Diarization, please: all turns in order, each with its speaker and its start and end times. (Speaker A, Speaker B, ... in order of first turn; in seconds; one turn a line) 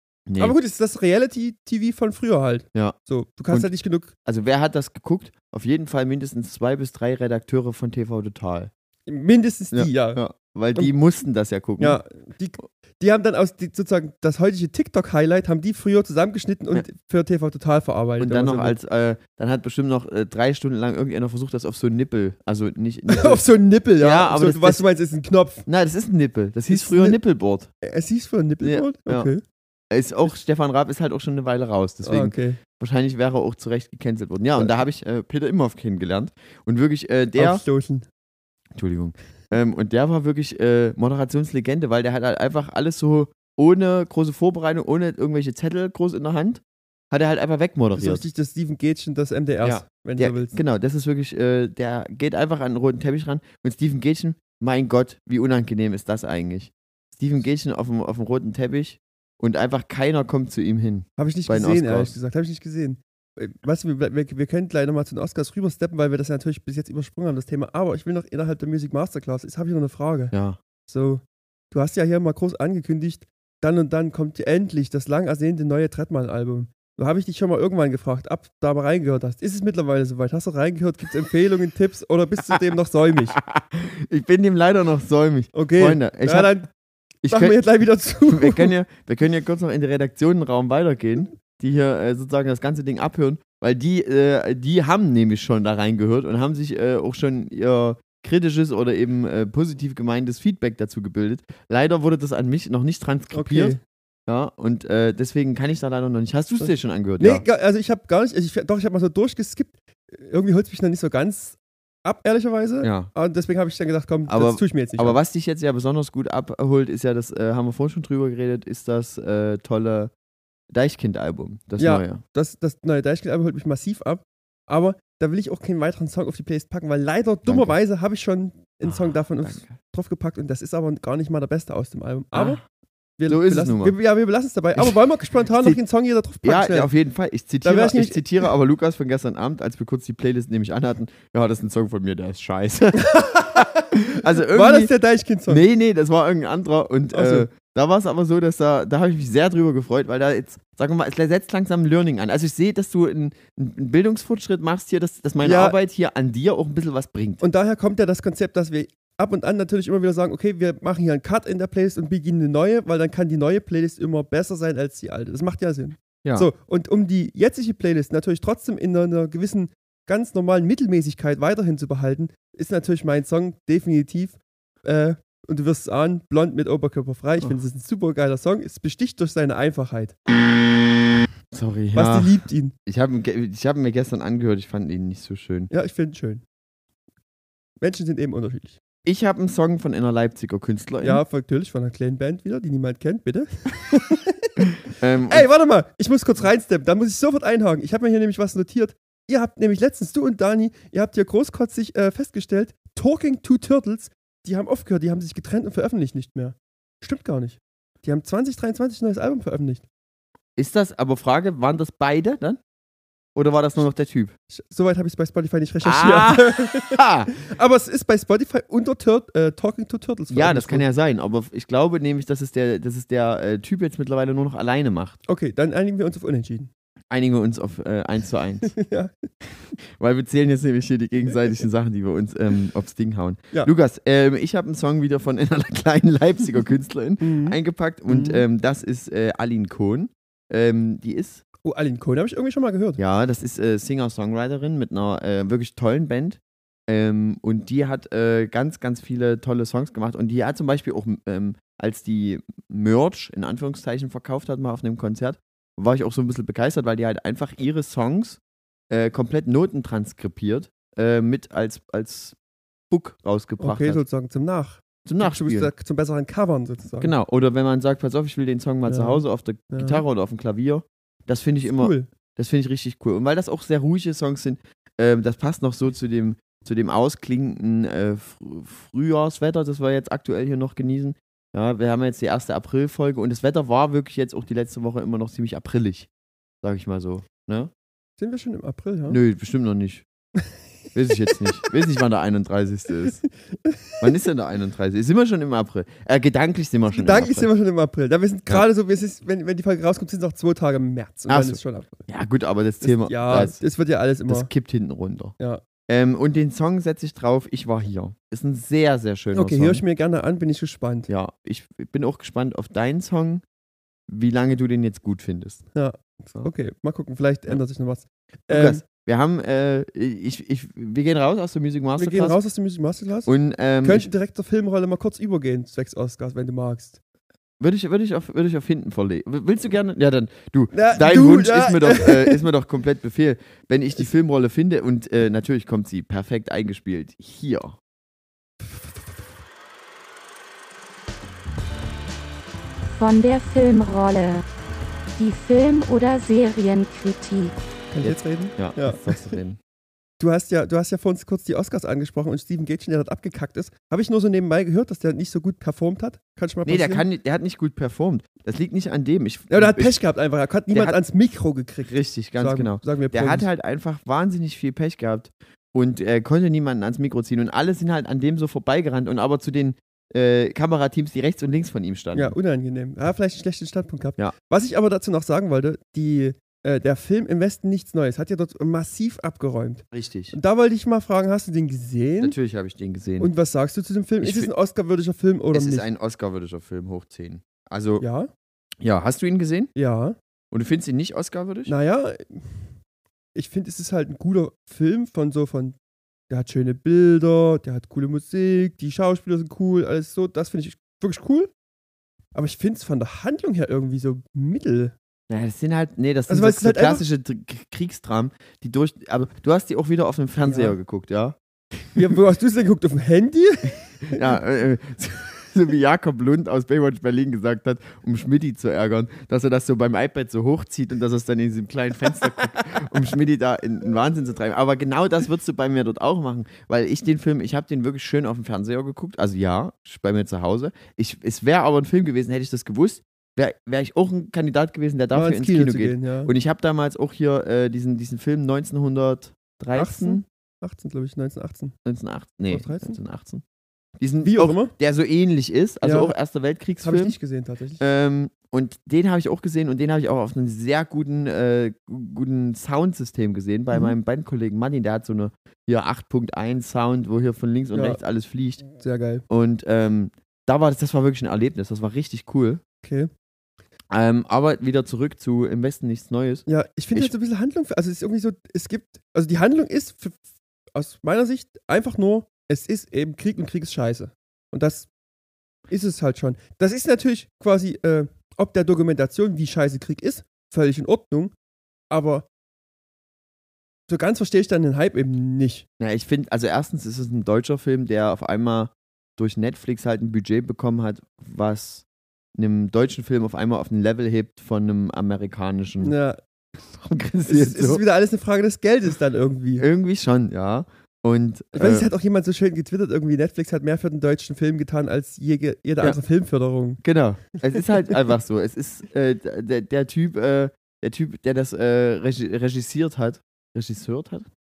Speaker A: 0.3-0.6
Speaker B: 0.4-4.1
Speaker A: 4.2-8.7
Speaker B: 9.1-10.2
Speaker A: 9.7-12.0
Speaker B: 11.8-18.8
Speaker A: 18.2-23.4
Speaker B: 23.1-25.7
Speaker A: 24.0-24.8
Speaker A: 25.6-27.7
Speaker B: 26.7-27.2
Speaker B: 27.8-29.4
Speaker A: 28.6-29.3
Speaker A: 29.9-37.6
Speaker B: 32.0-32.6
Speaker B: 37.4-38.0
Speaker A: 38.7-48.2
Speaker B: 47.9-50.6
Speaker A: 49.6-62.1
Speaker B: 61.2-70.3
Speaker A: 70.3-70.6
Speaker B: 70.9-83.4
Speaker A: 83.3-86.6
Speaker B: 85.5-86.7
Speaker A: 87.2-87.6
Speaker B: 87.3-88.7
Speaker A: 88.2-107.4
Speaker B: 103.3-103.8
Speaker B: 106.6-115.2
Speaker A: 112.8-113.1
Speaker A: 114.3-120.1
Speaker A: 120.7-122.2
Speaker B: 121.8-132.6
Speaker A: 127.5-127.7
Speaker A: 128.8-129.8
Speaker A: 132.3-132.6
Speaker B: 133.2-136.9
Speaker A: 133.3-133.9
Speaker A: 134.7-135.8
Speaker A: 136.4-144.9
Speaker B: 137.6-138.5
Speaker B: 143.0-145.6
Speaker A: 145.5-157.4
Speaker B: 147.1-147.5
Speaker B: 155.4-155.8
Speaker B: 157.4-180.2
Speaker A: 166.2-166.5
Speaker A: 181.5-185.7
Speaker B: 181.9-182.7
Speaker B: 185.7-186.4
Speaker B: 187.8-188.8
Speaker A: 189.0-191.2
Speaker B: 191.0-194.6
Speaker A: 194.9-195.5
Speaker B: 195.3-209.8
Speaker A: 210.6-212.6
Speaker A: 213.3-214.3
Speaker B: 214.5-220.8
Speaker A: 215.8-217.3
Speaker A: 220.3-225.2
Speaker B: 225.2-226.7
Speaker A: 227.1-228.7
Speaker B: 228.6-229.2
Speaker A: 229.8-241.4
Speaker B: 237.2-238.4
Speaker B: 241.6-243.0
Speaker A: 243.0-258.4
Speaker A: 258.9-262.4
Speaker A: 262.9-264.0
Speaker B: 263.6-267.1
Speaker A: 265.0-265.7
Speaker A: 267.0-286.1
Speaker B: 268.8-270.0
Speaker B: 271.6-272.1
Speaker A: 286.6-287.7
Speaker B: 288.2-289.2
Speaker A: 289.1-290.1
Speaker A: 290.9-293.2
Speaker B: 293.6-294.1
Speaker A: 294.0-297.5
Speaker B: 296.9-302.1
Speaker A: 301.3-303.6
Speaker B: 302.8-304.5
Speaker A: 304.3-305.3
Speaker A: 305.9-309.8
Speaker B: 309.3-311.1
Speaker A: 311.1-313.4
Speaker A: 314.1-315.6
Speaker B: 315.7-318.8
Speaker A: 318.5-322.4
Speaker B: 322.0-323.3
Speaker A: 323.2-324.1
Speaker B: 323.8-327.0
Speaker A: 327.6-337.8
Speaker B: 330.7-332.4
Speaker C: 342.9-344.4
Speaker C: 345.2-347.6
Speaker B: 347.9-349.4
Speaker A: 348.0-349.6
Speaker B: 350.2-357.0
Speaker A: 356.6-360.0
Speaker B: 359.5-363.5
Speaker A: 360.7-361.0
Speaker A: 361.8-372.3
Speaker B: 372.1-382.4
Speaker A: 379.9-380.4
Speaker A: 382.2-383.3
Speaker B: 383.2-385.9
Speaker A: 384.2-384.5
Speaker A: 385.5-388.0
Speaker B: 388.0-388.3
Speaker A: 388.8-389.7
Speaker B: 389.8-390.1
Speaker A: 390.5-391.7
Speaker B: 391.6-392.6
Speaker B: 393.3-395.8
Speaker B: 396.3-401.5
Speaker B: 402.3-404.9
Speaker A: 405.3-411.4
Speaker B: 406.3-407.0
Speaker B: 410.4-410.8
Speaker B: 411.9-414.2
Speaker A: 414.1-440.2
Speaker B: 435.1-436.3
Speaker B: 439.7-441.7
Speaker A: 441.8-443.4
Speaker B: 442.5-443.0
Speaker A: 444.0-447.2
Speaker B: 444.2-444.7
Speaker B: 445.8-446.1
Speaker B: 446.8-447.8
Speaker A: 447.8-458.6
Speaker B: 457.7-458.0
Speaker B: 458.7-459.2
Speaker A: 459.3-462.6
Speaker B: 462.8-463.1
Speaker A: 463.9-467.1
Speaker B: 466.5-470.2
Speaker B: 470.7-474.9
Speaker B: 475.7-481.3
Speaker B: 481.9-482.2
Speaker B: 483.9-485.6
Speaker A: 485.8-495.9
Speaker B: 495.8-496.2
Speaker A: 496.7-497.8
Speaker B: 497.3-499.6
Speaker A: 499.6-501.9
Speaker B: 501.5-506.8
Speaker A: 506.8-514.3